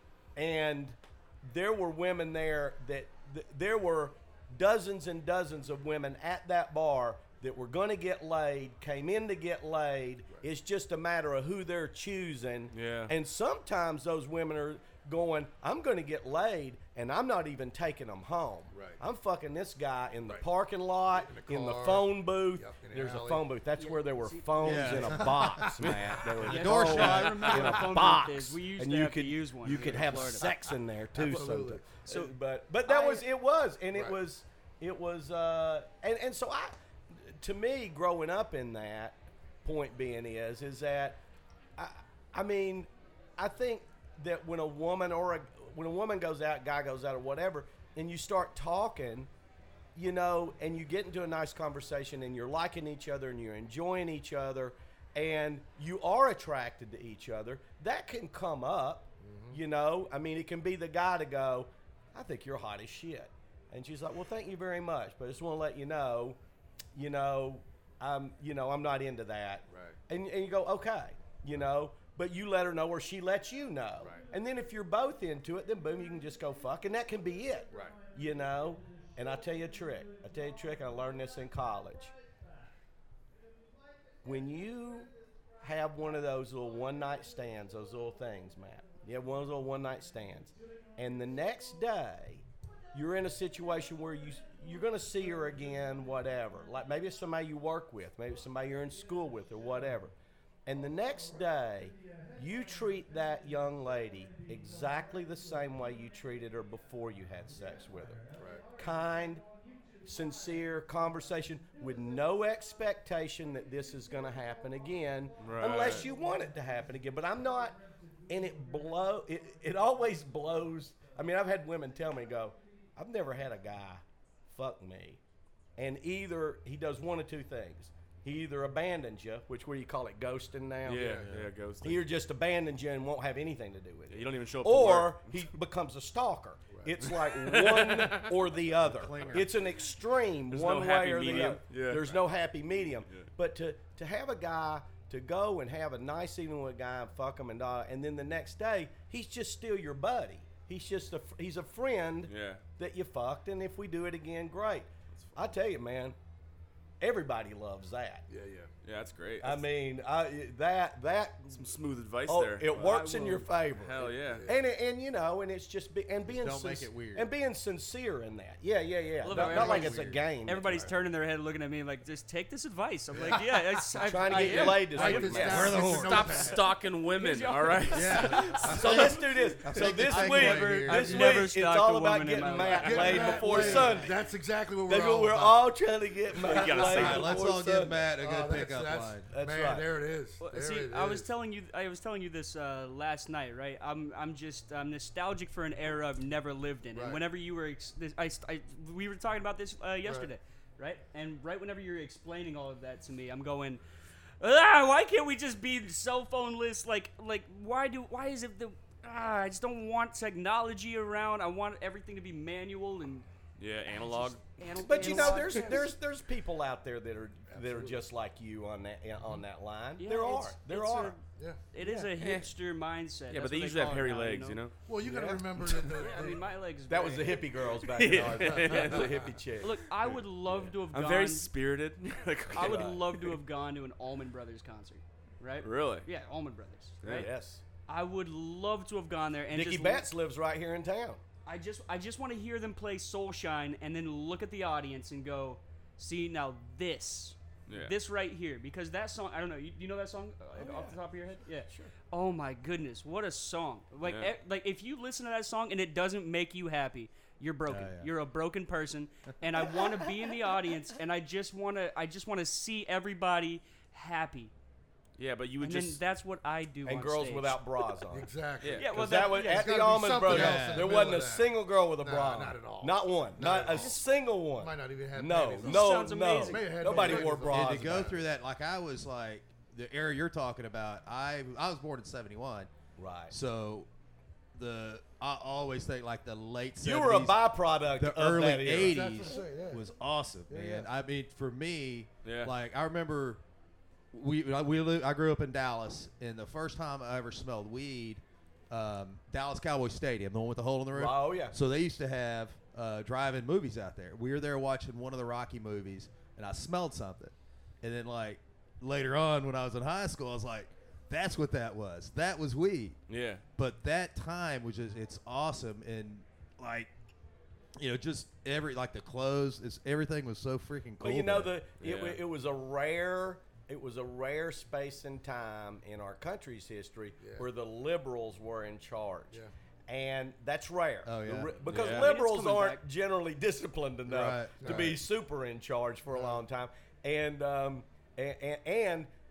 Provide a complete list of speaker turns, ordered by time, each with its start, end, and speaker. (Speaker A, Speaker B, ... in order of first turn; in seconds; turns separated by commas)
Speaker A: 0.4-41.2, Speaker B: 12.7-13.1, Speaker C: 18.7-19.0, Speaker C: 21.1-23.5, Speaker D: 23.8-25.3, Speaker E: 24.6-27.6, Speaker C: 25.4-26.0, Speaker D: 26.4-30.7, Speaker C: 31.1-31.9, Speaker D: 32.1-32.3, Speaker D: 32.8-33.3, Speaker A: 41.8-49.3, Speaker A: 50.0-66.4, Speaker C: 59.2-59.6, Speaker A: 67.0-82.1, Speaker C: 69.7-70.0, Speaker C: 77.7-78.0, Speaker A: 84.2-85.1, Speaker A: 85.6-100.1, Speaker A: 100.7-108.2, Speaker A: 108.8-109.4, Speaker A: 110.0-117.8, Speaker B: 115.4-116.1, Speaker A: 118.3-125.2, Speaker A: 125.8-131.2, Speaker B: 130.9-132.0, Speaker C: 130.9-131.3, Speaker E: 131.2-131.5, Speaker A: 131.8-156.2, Speaker B: 134.1-135.5, Speaker C: 136.7-137.0, Speaker B: 137.1-138.4, Speaker E: 138.7-139.6, Speaker B: 140.5-142.2, Speaker B: 152.3-152.6, Speaker A: 157.0-158.3, Speaker C: 158.3-158.7, Speaker B: 158.8-159.7, Speaker A: 159.4-161.7, Speaker B: 161.5-163.0, Speaker A: 162.3-170.9, Speaker D: 162.8-163.5, Speaker B: 163.8-164.5, Speaker C: 164.2-164.6, Speaker E: 166.3-167.3, Speaker D: 169.2-176.4, Speaker E: 169.3-170.2, Speaker C: 170.7-170.9, Speaker C: 173.2-176.7, Speaker A: 174.0-175.8, Speaker B: 175.2-178.8, Speaker E: 175.5-176.6, Speaker D: 177.1-179.2, Speaker E: 177.9-181.3, Speaker A: 178.6-184.2, Speaker C: 179.7-181.4, Speaker D: 180.2-183.9, Speaker B: 182.7-183.8, Speaker C: 182.8-185.7, Speaker A: 184.9-188.0, Speaker B: 186.4-187.5, Speaker C: 186.5-187.1, Speaker E: 186.7-189.3, Speaker C: 188.2-191.3, Speaker A: 189.3-189.9, Speaker D: 190.4-203.8, Speaker C: 196.9-197.2, Speaker C: 200.0-200.3, Speaker D: 204.4-213.3, Speaker B: 213.6-215.2, Speaker D: 214.0-215.9, Speaker A: 214.8-221.2, Speaker C: 215.0-215.4, Speaker C: 217.5-218.1, Speaker D: 220.0-224.6, Speaker C: 221.4-221.6, Speaker B: 221.8-222.5, Speaker B: 223.3-224.7, Speaker C: 224.9-226.5, Speaker A: 225.0-225.5, Speaker B: 225.7-225.9, Speaker D: 226.0-227.7, Speaker A: 226.9-230.6, Speaker B: 227.8-229.3, Speaker C: 228.0-229.3, Speaker D: 229.6-231.5, Speaker B: 230.9-233.4, Speaker D: 232.5-237.3, Speaker A: 232.6-233.0, Speaker B: 235.6-236.1, Speaker B: 237.0-237.3, Speaker A: 237.1-237.6, Speaker D: 237.9-240.1, Speaker A: 239.5-241.2, Speaker D: 241.5-264.5, Speaker B: 247.7-247.9, Speaker A: 250.6-251.0, Speaker B: 254.0-254.3, Speaker E: 257.7-258.1, Speaker B: 265.2-266.0, Speaker D: 265.6-267.6, Speaker A: 266.9-278.1, Speaker C: 268.1-278.2, Speaker B: 268.6-268.9, Speaker D: 268.8-269.9, Speaker E: 270.2-271.2, Speaker D: 275.6-277.3, Speaker E: 277.0-282.7, Speaker A: 283.0-283.4, Speaker E: 283.3-283.9, Speaker E: 284.5-287.4, Speaker A: 286.8-289.2, Speaker E: 287.9-293.4, Speaker C: 288.7-289.8, Speaker C: 290.5-290.9, Speaker B: 292.2-292.5, Speaker E: 294.1-313.0, Speaker A: 300.9-301.6, Speaker B: 313.1-313.4, Speaker E: 313.6-316.9, Speaker E: 317.8-321.6, Speaker A: 321.0-339.1, Speaker B: 321.8-322.2, Speaker C: 327.2-327.5, Speaker E: 331.1-331.6, Speaker B: 331.7-332.1, Speaker D: 331.8-332.8, Speaker E: 334.1-334.9, Speaker C: 334.6-335.0, Speaker C: 336.1-336.4